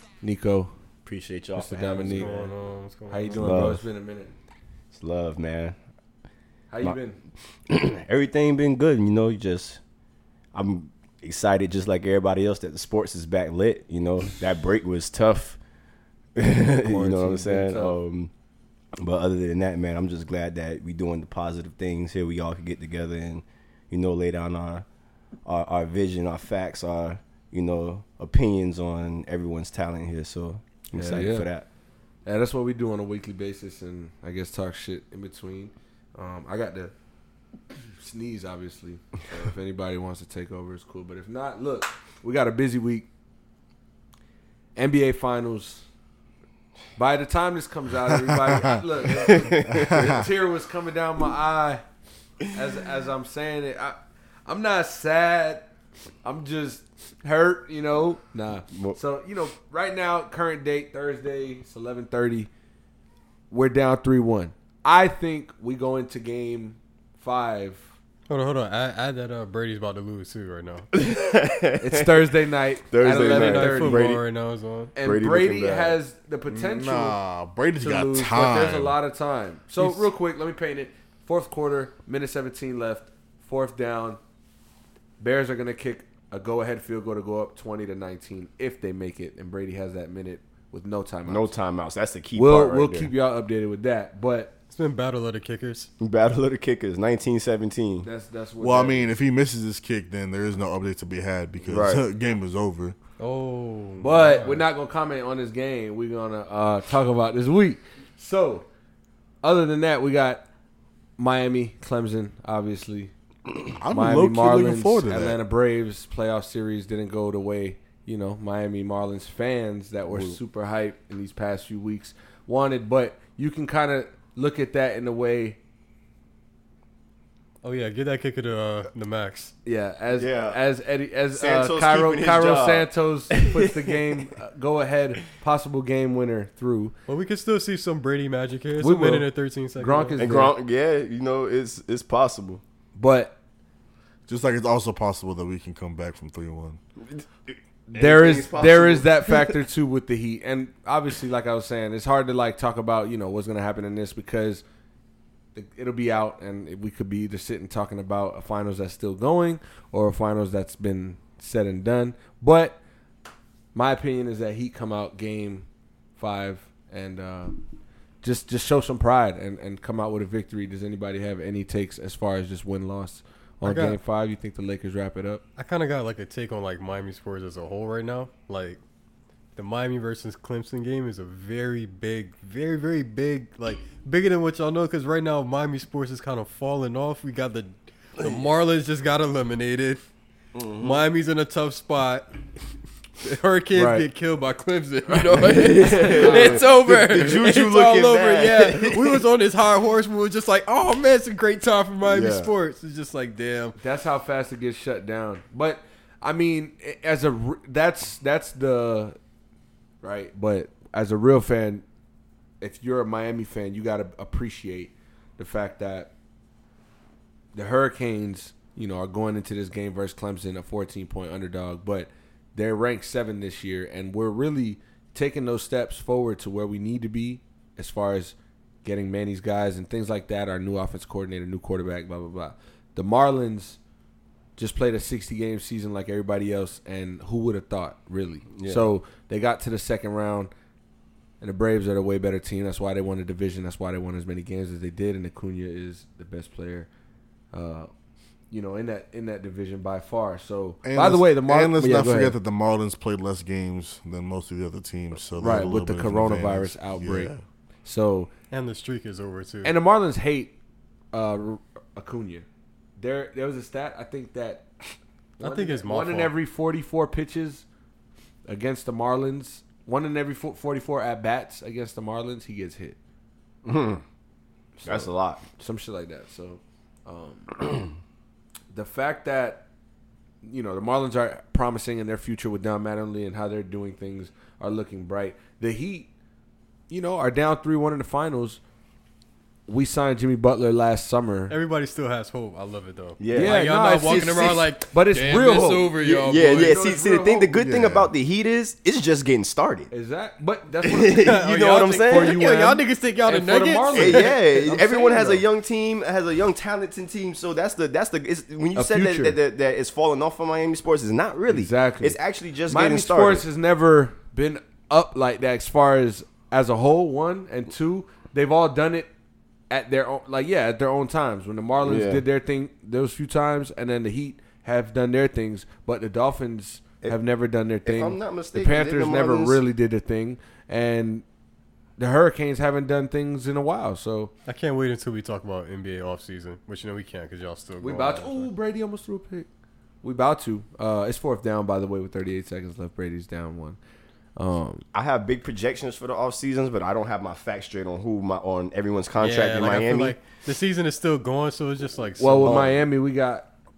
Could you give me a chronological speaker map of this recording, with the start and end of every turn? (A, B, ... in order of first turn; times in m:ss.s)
0:00.2-0:00.7 A
0:01.0-0:02.5 B
0:01.5-0:02.4 A
0:02.1-0:03.8 C
0:03.1-0:04.3 A
0:03.4-0:03.8 B
0:04.9-0:05.8 B
0:06.7-0:07.2 A
0:07.7-0:09.8 B
0:10.5-0:15.6 B
0:16.4-0:18.3 B
0:16.8-0:17.6 D
0:17.5-0:18.0 A
0:19.0-0:24.8 B
0:25.4-0:31.6 B
0:30.9-0:31.5 A
0:32.2-0:36.9 A
0:38.0-0:43.0 A
0:44.8-0:45.8 A
0:47.0-0:51.8 A
0:48.3-0:50.2 D
0:49.1-0:50.2 B
0:52.5-0:55.7 A
0:56.2-1:02.5 A
0:58.7-0:59.0 B
1:03.5-1:07.9 A
1:08.3-1:10.9 C
1:10.9-1:12.3 B
1:11.8-1:14.2 A
1:12.9-1:14.2 B
1:13.1-1:14.9 C
1:14.9-1:17.2 A
1:15.0-1:16.0 B
1:16.5-1:19.0 D
1:17.8-1:24.2 A
1:19.8-1:20.0 C
1:25.2-1:31.5 A
1:31.2-1:33.1 B
1:32.4-1:34.5 A
1:34.7-1:35.9 C
1:36.0-1:38.1 B
1:38.0-1:39.2 A
1:38.6-1:43.0 D
1:41.6-1:42.0 B
1:43.2-1:44.6 C
1:44.0-1:48.6 A
1:49.4-1:50.4 A
1:51.2-1:53.1 A
1:53.8-1:55.4 D
1:53.9-2:05.6 A
2:00.1-2:00.4 B
2:07.6-2:09.5 C
2:09.6-2:16.9 A
2:10.2-2:10.6 B
2:11.3-2:14.1 B
2:17.1-2:20.2 C
2:18.8-2:20.5 A
2:20.2-2:22.6 B
2:22.9-2:23.4 A
2:24.3-2:26.8 D
2:27.0-2:29.6 B
2:27.9-2:34.6 A
2:35.5-2:42.8 A
2:43.7-2:45.6 A
2:46.2-2:47.6 A
2:48.2-2:55.4 A
2:53.6-2:54.0 C
2:55.6-2:58.8 C
2:59.6-3:10.0 C
3:10.5-3:11.0 B
3:10.8-3:12.3 C
3:13.2-3:23.8 C
3:13.7-3:14.0 A
3:15.4-3:19.2 B
3:16.0-3:16.6 A
3:22.1-3:22.5 B
3:23.8-3:29.2 A
3:30.0-3:31.8 A
3:32.6-3:36.1 A
3:37.5-3:53.8 A
3:54.6-4:00.5 A
3:58.5-3:58.9 B
4:01.4-4:06.9 A
4:07.5-4:07.9 A
4:08.5-4:12.4 A
4:10.8-4:17.4 D
4:15.4-4:17.3 A
4:17.8-4:18.3 A
4:18.5-4:19.7 C
4:19.6-4:20.5 A
4:21.1-4:22.4 A
4:23.0-4:24.7 A
4:25.4-4:27.6 A
4:25.4-4:26.3 C
4:28.4-4:33.0 A
4:33.6-4:34.0 B
4:34.8-4:37.8 A
4:34.8-4:35.4 B
4:38.7-4:39.6 A
4:40.4-4:46.1 A
4:46.9-4:48.6 A
4:49.7-4:51.5 A
4:51.5-4:56.8 C
4:53.2-4:54.6 B
4:53.3-4:57.6 A
4:55.8-4:59.9 B
4:57.6-4:58.1 D
4:59.9-5:05.4 A
5:00.8-5:02.4 B
5:01.1-5:04.3 C
5:03.9-5:13.4 B
5:08.7-5:09.4 A
5:11.5-5:19.1 A
5:19.7-5:31.2 A
5:21.8-5:22.2 B
5:27.8-5:29.6 B
5:32.0-5:34.3 A
5:34.5-5:38.5 C
5:37.8-5:39.5 A
5:40.0-5:43.8 A
5:44.4-5:44.8 A
5:44.9-5:50.2 B
5:49.2-5:52.6 C
5:52.2-5:53.5 A
5:52.4-5:52.8 B